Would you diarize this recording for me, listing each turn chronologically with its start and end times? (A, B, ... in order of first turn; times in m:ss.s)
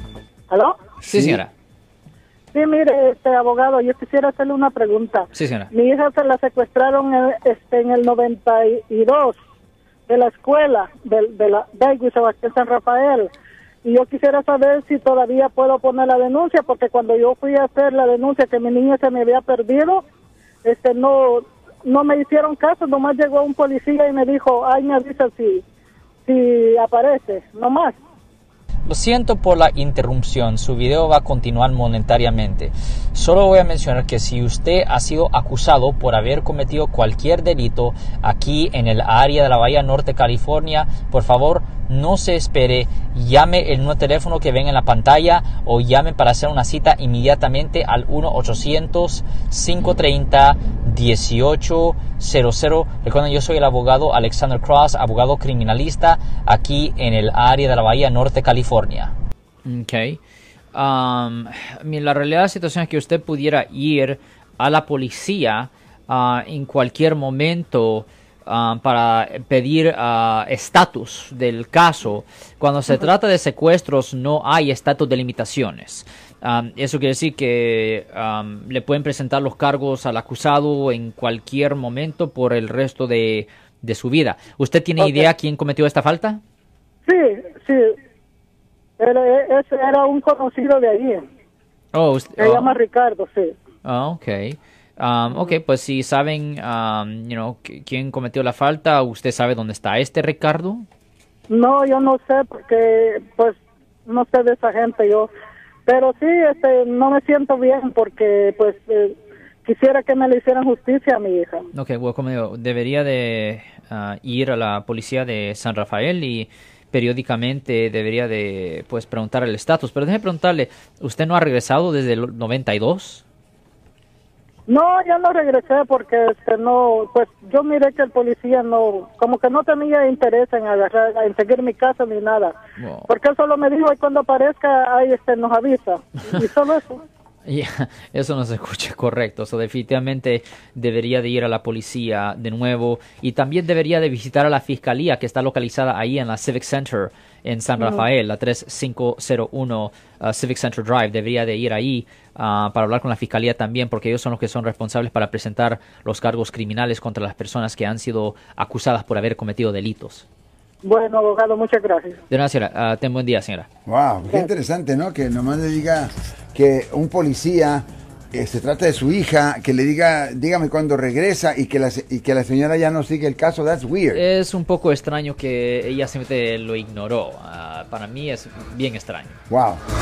0:00.5-0:00.8 A
0:01.0-0:01.4 B
0:01.1-0:01.5 C
0:02.5-0:09.4 A
0:05.3-0:05.7 C
0:10.1-0:13.3 A
0:13.8-0:20.0 A
0:20.6-0:25.6 A
0:26.2-0:28.0 A
0:28.9-0:59.1 C
0:59.6-1:00.2 C
1:00.7-1:26.4 C
1:25.0-1:25.3 A
1:27.1-1:27.9 A
1:29.0-1:31.2 A
1:31.9-1:32.7 C
1:32.4-1:33.6 A
1:33.8-1:40.9 C
1:41.5-1:45.3 A
1:45.9-1:51.7 A
1:51.7-2:03.2 C
2:04.7-2:12.6 A
2:12.8-2:13.1 C
2:13.1-2:17.0 A
2:17.4-2:40.2 C
2:27.8-2:28.0 A
2:40.8-2:42.2 A
2:42.3-2:43.7 C
2:43.8-2:54.2 B
2:54.1-2:59.4 C
2:59.5-2:59.8 B